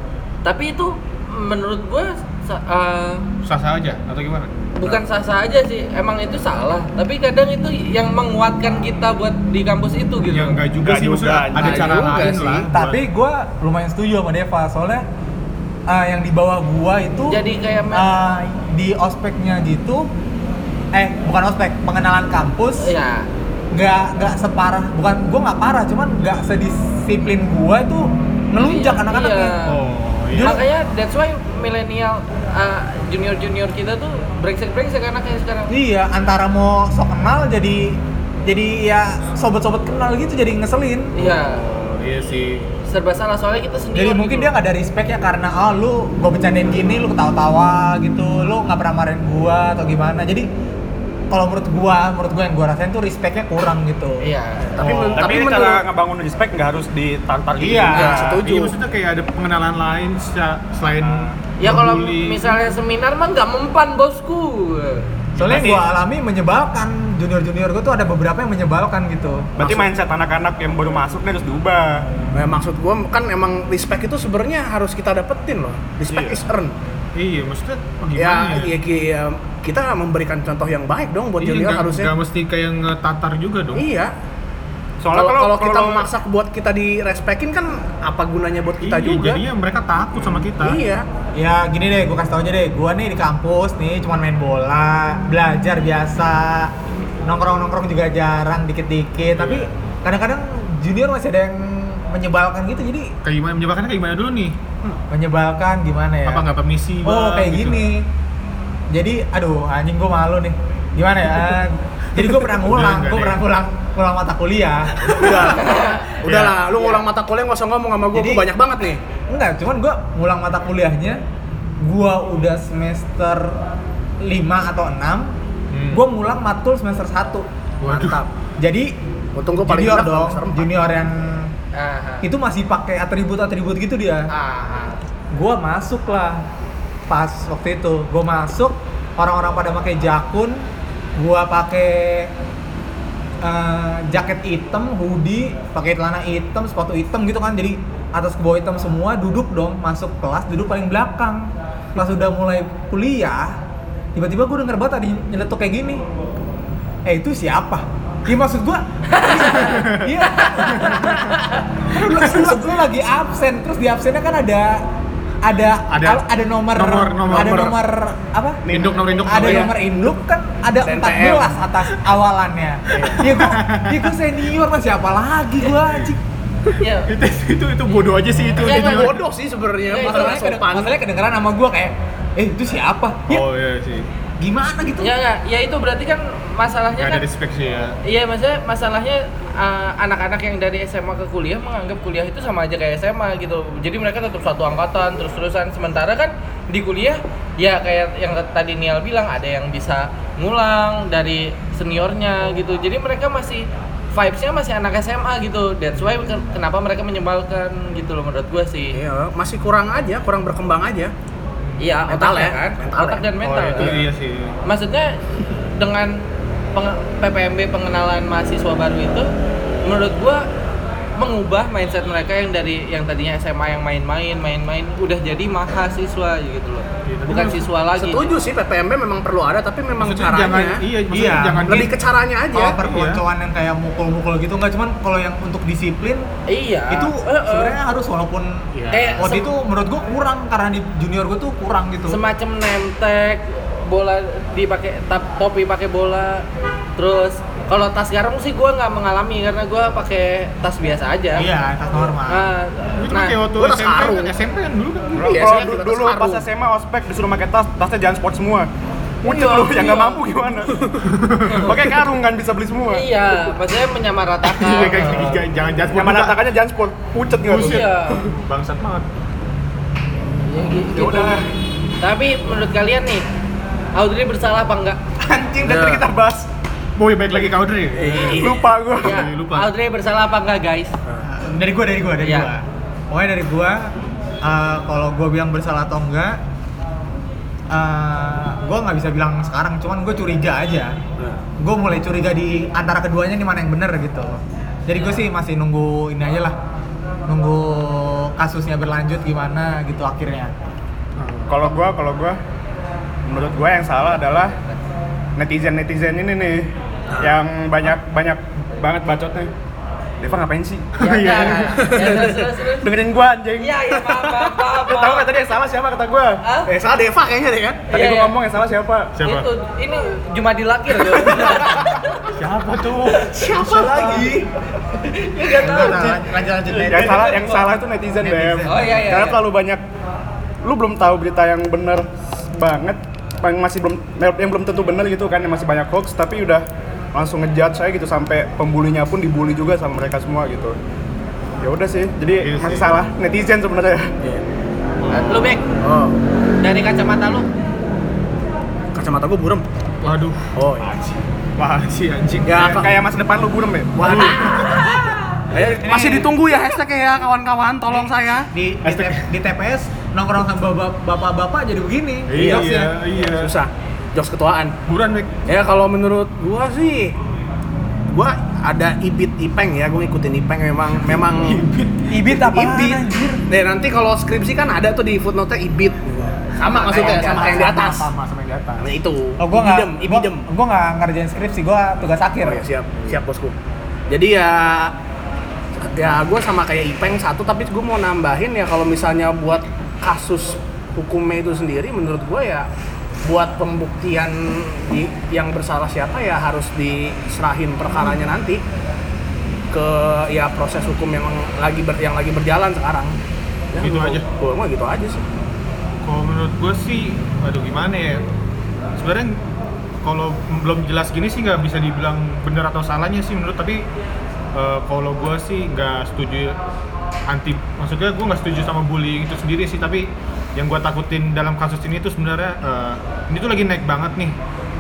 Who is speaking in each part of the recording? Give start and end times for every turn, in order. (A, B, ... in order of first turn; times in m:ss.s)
0:00.4-0:03.2 A
0:03.4-0:04.5 B
0:04.8-0:10.6 A
0:10.2-0:13.0 B
0:10.8-0:12.3 C
0:11.5-0:12.7 D
0:12.7-0:15.0 E
0:15.9-0:17.4 E
0:17.3-0:18.1 A
0:17.9-0:20.1 E
0:20.9-0:22.9 E
0:22.8-0:23.3 A
0:23.7-0:29.6 E
0:28.6-0:29.8 A
0:29.6-0:30.6 B
0:30.3-0:30.6 E
0:30.4-0:35.7 A
0:35.7-0:41.2 E
0:41.2-0:41.6 A
0:41.2-0:42.7 B
0:42.9-0:44.5 A
0:44.0-0:50.5 E
0:51.3-0:54.3 E
0:54.2-0:54.7 A
0:54.6-0:55.8 D
0:54.8-0:58.1 C
0:57.6-0:58.2 E
0:57.9-0:58.8 D
0:58.0-1:02.6 B
1:01.6-1:05.1 A
1:05.4-1:09.5 E
1:05.4-1:05.8 B
1:05.4-1:05.8 C
1:09.6-1:12.1 C
1:12.3-1:16.8 D
1:16.1-1:16.4 B
1:17.2-1:18.8 B
1:18.2-1:22.1 D
1:21.4-1:23.9 B
1:23.8-1:24.1 D
1:25.0-1:26.1 C
1:25.1-1:29.4 D
1:28.8-1:30.8 B
1:30.6-1:31.1 D
1:31.4-1:36.7 E
1:37.2-1:43.1 E
1:39.3-1:39.7 B
1:43.2-1:45.0 B
1:45.1-1:46.4 E
1:46.2-1:47.8 B
1:47.0-1:48.1 E
1:48.9-1:55.4 E
1:52.2-1:53.4 B
1:55.0-1:59.0 D
1:55.5-1:56.1 A
1:56.2-1:56.6 B
1:58.1-1:58.5 E
1:59.3-2:01.2 E
2:01.8-2:03.6 E
2:04.2-2:05.3 E
2:05.7-2:06.0 B
2:05.9-2:07.5 E
2:07.8-2:08.2 B
2:07.9-2:08.3 D
2:08.6-2:08.9 E
2:09.4-2:10.7 D
2:09.5-2:11.5 E
2:11.7-2:12.3 A
2:12.2-2:14.3 E
2:14.3-2:15.0 A
2:15.3-2:16.4 E
2:17.1-2:20.7 E
2:21.2-2:22.3 E
2:23.4-2:33.6 E
2:34.2-2:36.0 E
2:37.1-2:41.3 E
2:39.1-2:39.8 A
2:39.8-2:40.1 B
2:40.4-2:41.6 A
2:40.9-2:41.2 B
2:41.9-2:44.8 E
2:42.0-2:42.6 B
2:45.4-2:48.6 E
2:45.9-2:47.8 B
2:48.7-2:49.3 C
2:48.7-2:49.8 B
2:49.3-2:56.2 E
2:50.8-2:51.6 D
2:52.9-2:54.2 B
2:52.9-2:53.2 D
2:56.8-2:57.1 A
2:57.0-2:59.2 B
2:58.6-2:59.2 A
2:58.6-3:00.9 D
2:59.9-3:00.5 A
3:00.0-3:03.4 E
3:03.3-3:04.1 B
3:04.4-3:05.1 E
3:05.0-3:07.2 A
3:07.0-3:08.0 B
3:08.0-3:29.0 A
3:28.9-3:31.1 D
3:31.8-3:34.0 A
3:32.1-3:33.3 D
3:33.4-3:34.6 B
3:34.6-3:35.2 A
3:35.8-3:36.2 A
3:36.7-3:39.3 A
3:39.8-3:40.4 A
3:41.2-3:48.3 A
3:47.1-3:47.7 B
3:48.0-3:50.8 D
3:50.0-3:51.9 B
3:51.1-3:51.9 E
3:51.7-3:52.8 D
3:52.5-3:56.3 E
3:52.7-3:53.2 B
3:56.5-3:57.8 A
3:56.9-4:02.2 E
3:58.7-3:59.4 B
3:58.9-3:59.5 A
4:02.1-4:06.4 A
4:07.0-4:11.5 A
4:11.4-4:12.5 E
4:12.3-4:13.5 A
4:13.0-4:15.4 B
4:13.5-4:14.4 D
4:15.1-4:16.4 D
4:15.2-4:18.7 C
4:19.2-4:20.2 A
4:19.2-4:20.9 C
4:21.0-4:21.8 B
4:21.5-4:21.8 A
4:21.5-4:23.0 C
4:22.9-4:25.4 A
4:24.6-4:26.4 B
4:25.9-4:28.0 C
4:27.4-4:29.1 B
4:27.6-4:28.3 A
4:30.4-4:31.4 A
4:30.9-4:31.5 C
4:32.0-4:33.2 A
4:34.0-4:35.0 A
4:35.2-4:36.5 C
4:35.6-4:36.0 A
4:37.0-4:39.7 B
4:38.0-4:38.8 D
4:38.2-4:39.2 C
4:39.0-4:40.9 A
4:41.2-4:46.4 E
4:42.2-4:42.5 A
4:47.7-4:51.0 E
4:51.6-4:56.6 E
4:55.0-4:55.3 A
4:57.3-5:00.5 E
5:01.2-5:01.7 B
5:01.5-5:02.4 C
5:03.2-5:04.6 C
5:05.4-5:09.5 C
5:07.1-5:07.4 D
5:10.2-5:11.4 C
5:11.0-5:12.0 B
5:11.0-5:12.9 A
5:11.7-5:12.5 D
5:12.2-5:16.4 C
5:13.6-5:15.3 A
5:16.4-5:16.7 A
5:16.7-5:17.8 D
5:17.9-5:18.4 A
5:17.9-5:19.1 C
5:19.1-5:19.5 B
5:19.2-5:22.2 A
5:21.2-5:21.6 D
5:22.3-5:24.3 B
5:23.1-5:23.5 A
5:23.4-5:24.5 E
5:24.9-5:27.8 A
5:25.5-5:27.3 E
5:26.9-5:29.8 C
5:28.2-5:29.0 E
5:28.7-5:29.4 A
5:30.6-5:40.8 C
5:41.6-5:44.1 C
5:42.4-5:42.9 B
5:45.0-5:45.6 B
5:45.1-5:45.6 A
5:45.8-5:46.2 D
5:46.6-5:47.5 A
5:48.9-5:49.6 D
5:50.0-5:52.8 B
5:50.6-5:51.0 D
5:52.4-5:52.9 D
5:52.6-5:54.3 C
5:54.0-5:54.8 D
5:54.0-5:55.2 B
5:54.4-5:55.4 A
5:55.5-5:58.5 D
5:55.8-5:56.3 E
5:58.5-6:02.9 E
5:58.8-5:59.3 B
6:02.3-6:03.6 B
6:02.3-6:04.8 D
6:04.9-6:05.4 B
6:05.5-6:07.2 D
6:08.1-6:11.7 D
6:11.3-6:12.2 B
6:12.1-6:13.4 E
6:12.4-6:18.1 D
6:16.7-6:18.9 B
6:17.0-6:17.7 E
6:18.8-6:20.5 D
6:19.4-6:22.6 E
6:22.4-6:23.6 D
6:24.1-6:24.9 D
6:25.8-6:32.7 D
6:33.2-6:38.6 D
6:38.0-6:38.2 B
6:39.7-6:43.2 D
6:43.7-6:45.2 D
6:43.8-6:44.3 B
6:46.0-6:48.2 B
6:49.0-6:49.4 B
6:50.0-6:53.8 B
6:54.5-6:56.6 B
6:57.3-7:04.4 B